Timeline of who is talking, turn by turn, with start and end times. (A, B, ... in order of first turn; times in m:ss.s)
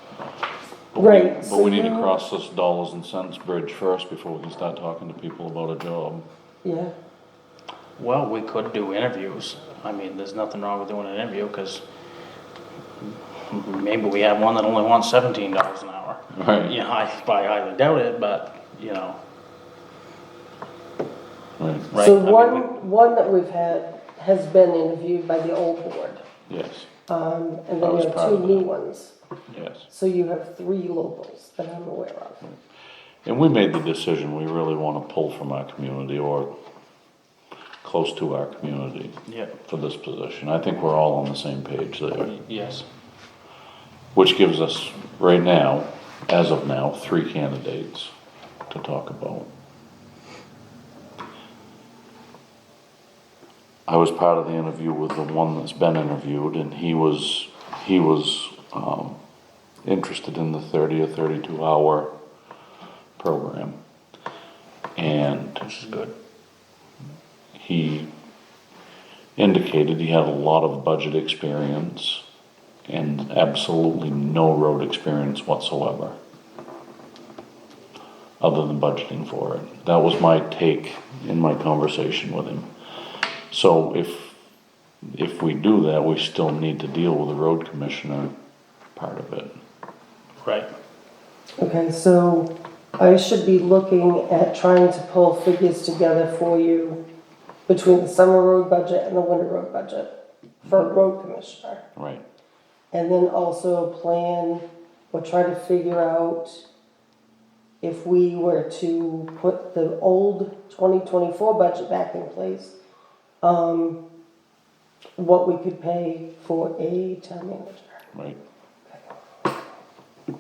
0:00.9-0:06.2 A
0:01.0-0:02.2 B
0:06.6-0:06.9 B
0:08.0-0:11.8 C
0:13.0-0:19.2 C
0:16.3-0:16.8 A
0:21.6-0:21.9 A
0:21.9-0:22.7 C
0:22.0-0:26.2 B
0:26.5-0:26.9 A
0:27.1-0:29.2 B
0:27.8-0:28.7 A
0:29.6-0:29.8 A
0:29.9-0:32.4 B
0:33.2-0:36.5 A
0:37.8-0:42.3 A
0:39.3-0:39.6 C
0:42.2-0:42.9 C
0:44.2-0:48.1 A
0:48.7-0:49.5 A
0:53.9-0:59.2 A
0:59.8-1:02.1 A
1:03.2-1:03.8 A
1:05.0-1:05.7 A
1:05.6-1:06.1 C
1:07.6-1:08.1 A
1:09.4-1:12.2 A
1:12.9-1:16.2 A
1:18.4-1:22.7 A
1:23.5-1:24.4 A
1:25.1-1:28.3 A
1:29.0-1:29.6 A
1:30.4-1:30.7 C
1:31.6-1:37.0 B
1:37.7-1:40.1 B
1:40.6-1:40.9 A
1:40.6-1:41.8 B
1:42.0-1:42.2 A
1:42.9-1:46.6 B
1:47.8-1:52.8 B
1:53.4-1:54.0 B
1:55.2-1:58.0 B
1:58.1-1:58.4 A